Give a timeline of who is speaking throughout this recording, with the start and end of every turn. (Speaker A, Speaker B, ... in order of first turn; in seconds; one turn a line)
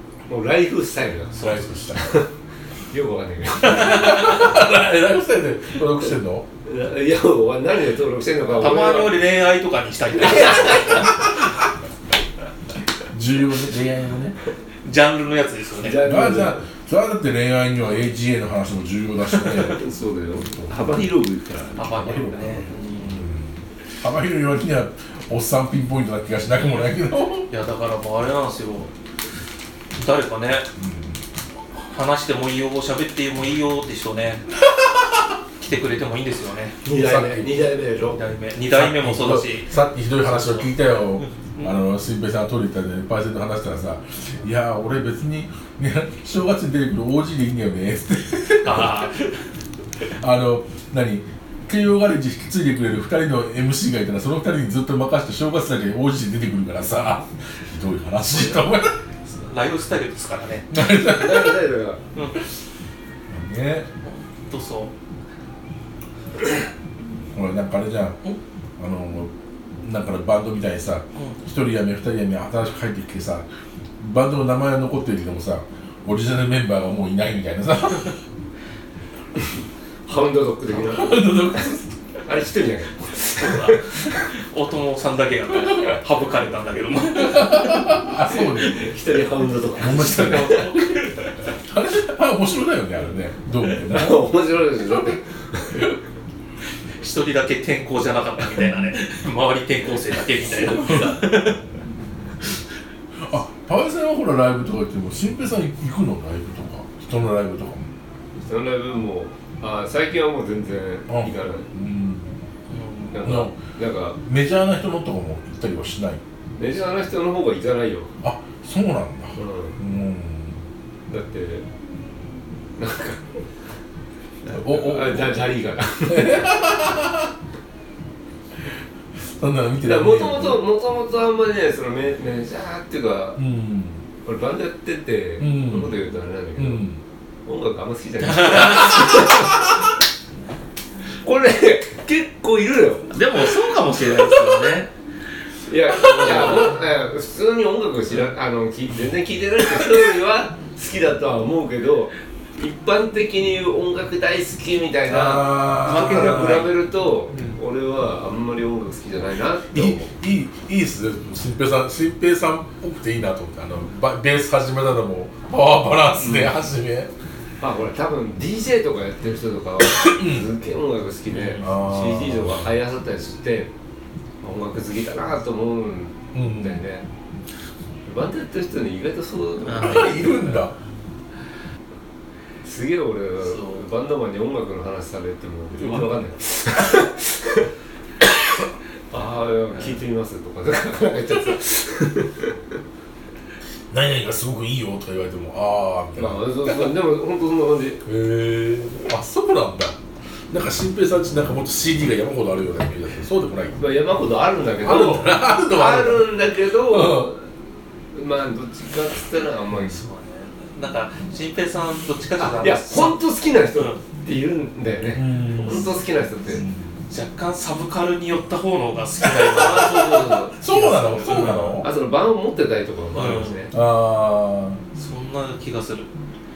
Speaker A: 0.3-2.3
Speaker B: 1.3-1.7
Speaker C: 1.4-2.0
Speaker A: 2.9-4.4
Speaker C: 3.6-6.5
Speaker B: 4.0-4.5
Speaker A: 6.7-9.2
Speaker B: 8.5-11.3
Speaker A: 10.2-11.1
Speaker C: 11.0-11.5
Speaker C: 13.0-14.4
Speaker B: 14.8-16.1
Speaker A: 15.8-16.6
Speaker C: 16.0-19.8
Speaker A: 19.4-23.2
Speaker C: 20.5-20.8
Speaker B: 21.8-23.1
Speaker C: 21.9-27.5
Speaker B: 27.5-28.9
Speaker B: 30.0-30.7
Speaker C: 30.8-31.2
Speaker B: 31.9-34.5
Speaker B: 35.6-36.8
Speaker A: 36.8-38.3
Speaker C: 36.9-37.6
Speaker B: 38.1-41.7
Speaker C: 38.7-49.1
Speaker B: 48.6-49.4
Speaker C: 50.1-58.9
Speaker B: 58.3-58.7
Speaker B: 59.2-60.7
Speaker C: 60.7-61.7
Speaker A: 61.0-62.0
Speaker B: 62.1-62.4
Speaker C: 63.3-63.9
Speaker B: 64.0-64.9
Speaker C: 67.3-68.2
Speaker C: 68.8-69.3
Speaker C: 69.8-73.5
Speaker C: 74.0-78.2
Speaker A: 80.1-81.7
Speaker C: 80.7-82.0
Speaker A: 82.2-83.9
Speaker B: 83.4-88.0
Speaker C: 87.2-88.9
Speaker A: 88.3-90.7
Speaker C: 89.8-91.0
Speaker B: 89.8-91.2
Speaker C: 91.6-94.6
Speaker A: 93.8-95.8
Speaker B: 97.0-101.6
Speaker C: 100.9-101.1
Speaker C: 103.2-107.9
Speaker A: 108.4-111.7
Speaker C: 111.1-112.3
Speaker B: 112.7-113.2
Speaker A: 113.1-114.2
Speaker C: 113.2-113.6
Speaker C: 114.2-116.2
Speaker A: 116.6-118.1
Speaker C: 118.2-120.6
Speaker A: 119.3-119.8
Speaker A: 121.1-121.7
Speaker A: 122.8-123.4
Speaker A: 124.4-126.6
Speaker C: 124.5-125.5
Speaker C: 126.1-127.3
Speaker C: 129.2-130.7
Speaker A: 129.8-133.4
Speaker C: 133.4-134.0
Speaker A: 134.2-136.9
Speaker C: 135.4-136.0
Speaker C: 136.6-137.0
Speaker A: 137.4-139.8
Speaker B: 138.2-139.2
Speaker A: 141.2-143.4
Speaker B: 143.1-144.9
Speaker A: 145.7-160.1
Speaker B: 145.9-146.8
Speaker C: 155.1-156.7
Speaker B: 155.8-157.6
Speaker C: 159.7-167.1
Speaker A: 166.2-166.6
Speaker A: 167.6-173.7
Speaker C: 169.9-170.5
Speaker B: 171.3-171.7
Speaker C: 171.6-172.7
Speaker A: 174.4-177.1
Speaker C: 176.3-176.8
Speaker A: 178.1-180.6
Speaker B: 179.7-180.2
Speaker C: 179.8-180.8
Speaker A: 182.6-187.7
Speaker B: 183.4-183.8
Speaker B: 185.8-186.1
Speaker A: 189.1-192.6
Speaker B: 189.7-190.0
Speaker C: 193.9-197.0
Speaker A: 196.2-198.0
Speaker C: 198.1-200.0
Speaker C: 200.5-203.8
Speaker A: 203.8-207.4
Speaker C: 204.8-206.3
Speaker C: 206.9-207.3
Speaker A: 208.1-210.0
Speaker B: 209.7-213.2
Speaker A: 212.4-216.7
Speaker B: 213.7-214.0
Speaker C: 215.2-217.0
Speaker B: 217.1-221.8
Speaker A: 219.5-223.7
Speaker C: 219.8-221.9
Speaker B: 223.1-223.7
Speaker C: 223.7-224.8
Speaker B: 224.9-226.1